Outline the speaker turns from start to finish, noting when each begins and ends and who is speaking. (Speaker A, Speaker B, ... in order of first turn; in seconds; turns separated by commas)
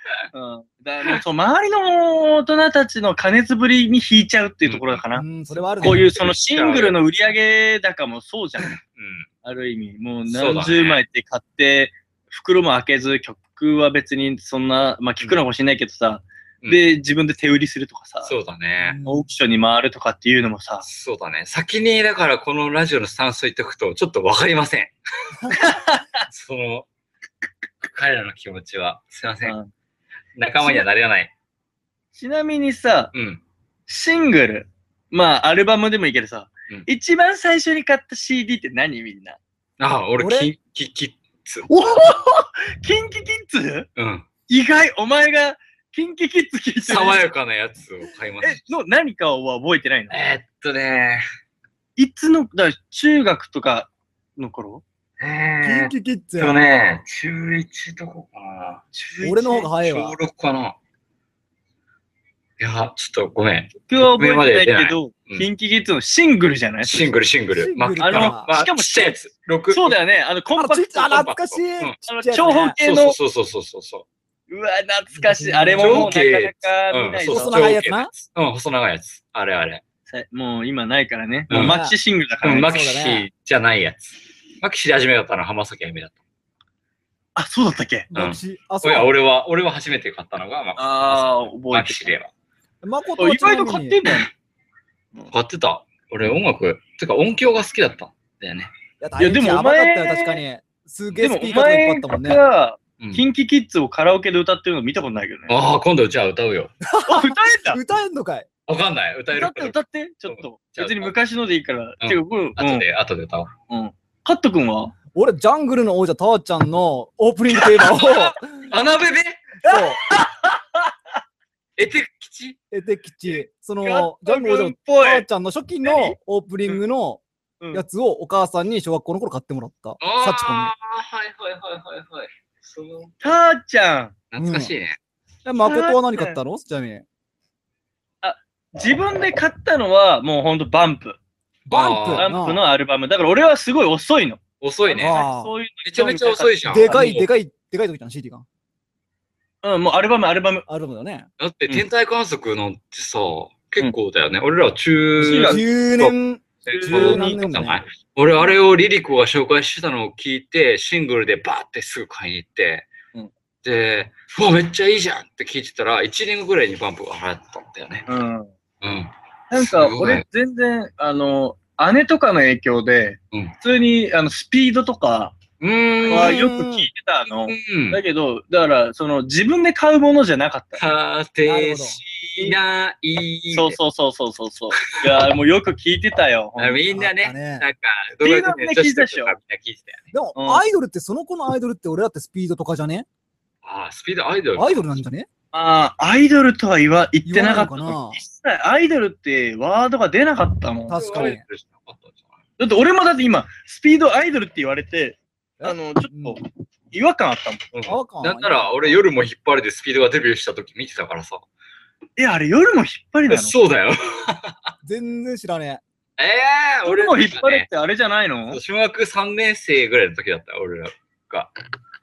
Speaker A: 0.3-5.3, Speaker B: 4.7-5.0, Speaker C: 5.2-6.1, Speaker B: 5.8-7.0, Speaker A: 5.8-8.8, Speaker B: 8.8-9.3, Speaker A: 9.4-18.3, Speaker B: 10.3-11.0, Speaker B: 18.2-19.0, Speaker C: 18.8-19.3, Speaker A: 19.1-20.9, Speaker B: 20.8-25.7, Speaker A: 25.5-26.2, Speaker B: 26.3-26.9, Speaker B: 27.8-29.6, Speaker A: 29.4-29.7, Speaker B: 30.4-31.3, Speaker A: 32.1-33.1, Speaker B: 33.1-33.4, Speaker A: 33.9-39.4, Speaker B: 39.8-41.7, Speaker C: 40.2-40.5, Speaker A: 41.7-43.9, Speaker B: 44.0-44.3, Speaker A: 44.5-47.2, Speaker B: 46.8-48.6, Speaker A: 48.4-50.2, Speaker B: 50.1-51.2, Speaker A: 52.0-54.8, Speaker B: 55.2-58.8, Speaker C: 55.6-56.6, Speaker A: 58.9-59.7, Speaker C: 59.2-60.2, Speaker B: 59.8-60.8, Speaker B: 62.6-65.5, Speaker A: 63.9-67.1, Speaker B: 66.8-70.0, Speaker C: 67.6-68.5, Speaker A: 68.0-69.2, Speaker A: 69.7-71.3, Speaker C: 70.5-72.8, Speaker B: 71.2-72.0, Speaker A: 72.1-73.2, Speaker B: 72.8-74.1, Speaker A: 74.5-77.7, Speaker C: 75.2-76.1, Speaker B: 75.8-79.8, Speaker C: 77.3-78.1, Speaker A: 80.1-82.7, Speaker B: 81.5-81.8, Speaker C: 81.5-82.0, Speaker B: 82.4-86.2, Speaker C: 82.5-83.3, Speaker A: 87.4-88.1, Speaker C: 88.1-89.1, Speaker B: 88.1-92.3, Speaker A: 90.8-92.1, Speaker C: 92.8-94.0, Speaker A: 93.2-94.3, Speaker B: 95.3-98.7, Speaker C: 99.0-102.4, Speaker A: 99.2-100.4, Speaker A: 101.2-105.6, Speaker B: 105.5-106.7, Speaker C: 106.9-108.5, Speaker A: 107.1-107.8, Speaker B: 108.7-109.8, Speaker A: 109.3-112.9, Speaker B: 110.3-111.1, Speaker B: 112.0-113.5, Speaker A: 113.7-114.9, Speaker C: 115.2-118.7, Speaker B: 117.6-119.4, Speaker C: 119.6-120.0, Speaker A: 119.7-121.2, Speaker B: 121.8-122.6, Speaker C: 122.7-130.7, Speaker A: 123.3-125.2, Speaker A: 125.8-126.2, Speaker B: 130.0-133.2, Speaker A: 133.2-134.2, Speaker B: 134.3-135.0, Speaker C: 134.4-134.7, Speaker C: 135.4-137.1, Speaker A: 135.6-136.4, Speaker A: 138.2-141.2, Speaker B: 141.7-142.3, Speaker C: 141.7-142.6, Speaker A: 142.1-147.1, Speaker B: 144.6-145.2, Speaker C: 145.0-145.5, Speaker B: 145.8-147.3, Speaker C: 146.7-148.4, Speaker A: 149.6-150.7, Speaker C: 150.7-151.3, Speaker B: 151.4-156.1, Speaker A: 155.2-155.7, Speaker C: 155.2-157.8, Speaker B: 156.7-162.9, Speaker A: 156.7-157.4, Speaker B: 163.6-168.1, Speaker A: 168.1-168.5, Speaker B: 168.8-170.2, Speaker A: 169.5-175.4, Speaker B: 175.6-176.4, Speaker A: 176.1-180.8, Speaker C: 176.1-176.9, Speaker B: 177.4-178.0, Speaker B: 180.8-183.8, Speaker C: 181.4-182.0, Speaker A: 183.5-186.9, Speaker B: 184.8-185.1, Speaker B: 186.6-190.1, Speaker C: 186.9-187.7, Speaker A: 188.2-189.3, Speaker C: 190.1-193.1, Speaker A: 190.3-190.6, Speaker B: 193.6-194.8, Speaker C: 194.6-195.3, Speaker A: 195.5-201.3, Speaker C: 197.2-198.2, Speaker C: 200.9-201.4, Speaker B: 200.9-202.2, Speaker A: 202.6-207.7, Speaker C: 205.6-206.4, Speaker B: 207.7-211.4, Speaker C: 207.9-209.0, Speaker A: 212.2-213.6, Speaker B: 213.3-214.7, Speaker C: 214.8-215.8, Speaker B: 216.2-217.7, Speaker A: 216.8-218.6, Speaker B: 218.5-221.5